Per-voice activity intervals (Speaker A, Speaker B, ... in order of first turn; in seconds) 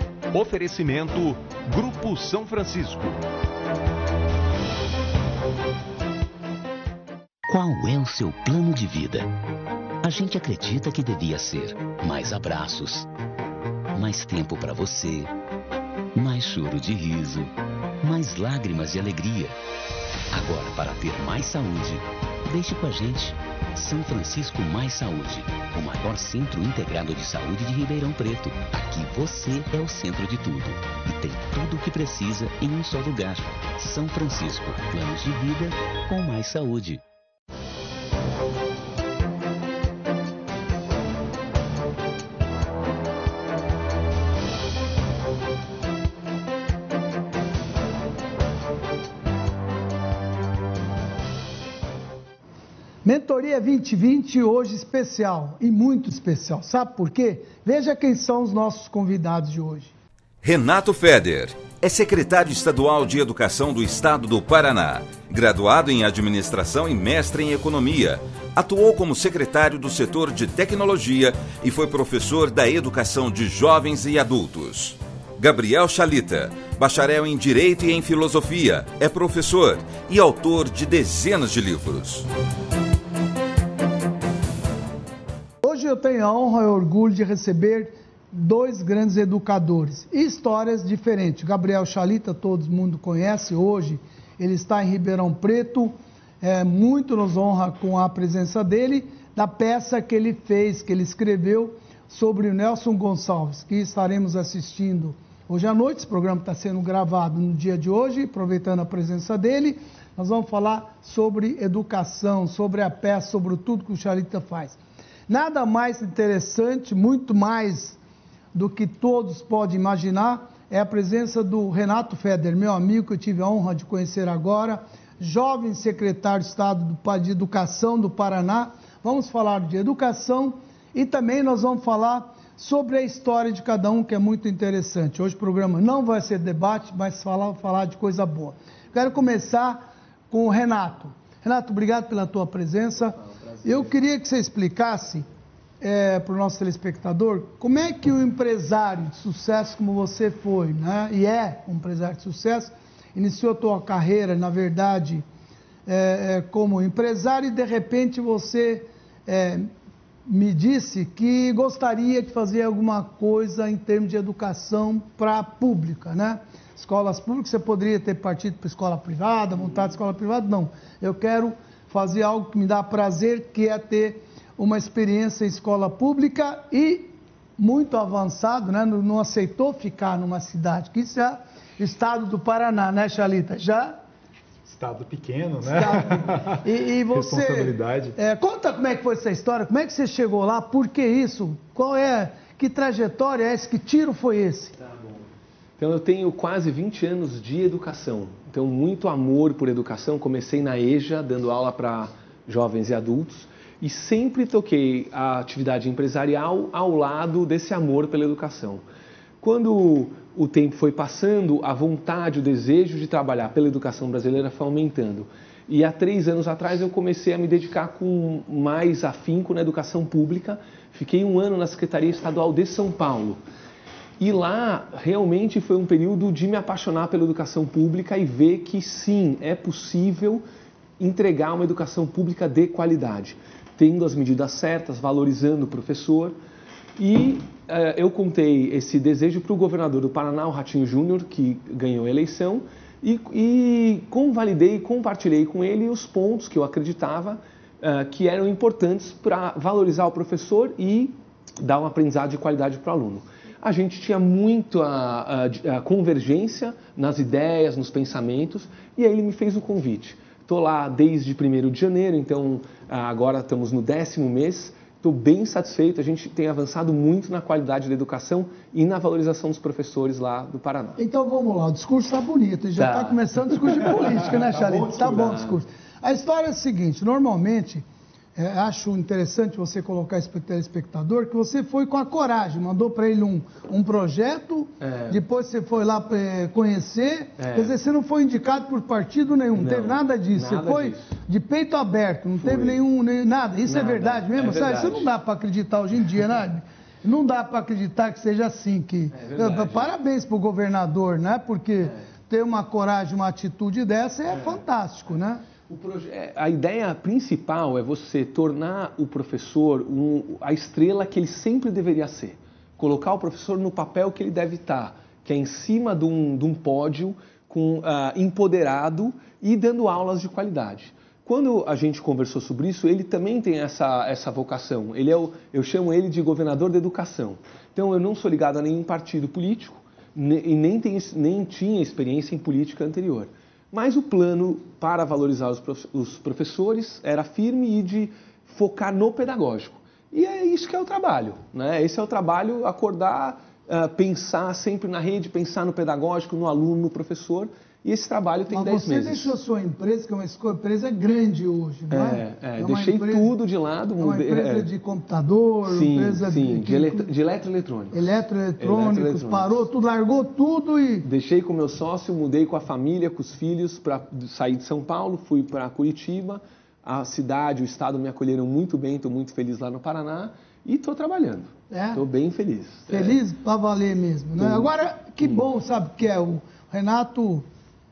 Speaker A: 0.3-3.2
Speaker B: 7.5-9.3, 10.0-13.1, 13.9-15.3, 16.2-17.5, 18.0-19.5, 20.3-37.0
Speaker C: 53.0-59.9, 85.6-118.0, 118.5-145.3, 145.8-155.2, 155.9-159.7, 160.3-184.0, 185.6-194.8, 271.0-277.9, 278.4-305.4, 348.5-353.3, 354.0-357.1, 357.9-361.1, 371.7-372.1, 372.9-377.5
Speaker D: 60.4-82.3
Speaker E: 143.3-143.8, 195.8-208.8, 209.4-223.4, 224.2-230.4, 231.0-236.4, 237.0-271.0, 272.8-274.0, 275.1-275.6, 284.8-285.2, 287.4-287.8, 289.6-291.1, 292.4-292.8, 293.6-295.1, 299.1-299.9, 304.3-304.6, 305.7-349.4, 351.9-354.7, 355.6-359.6, 361.1-373.2, 374.4-374.7
Speaker F: 184.7-188.2, 274.3-275.4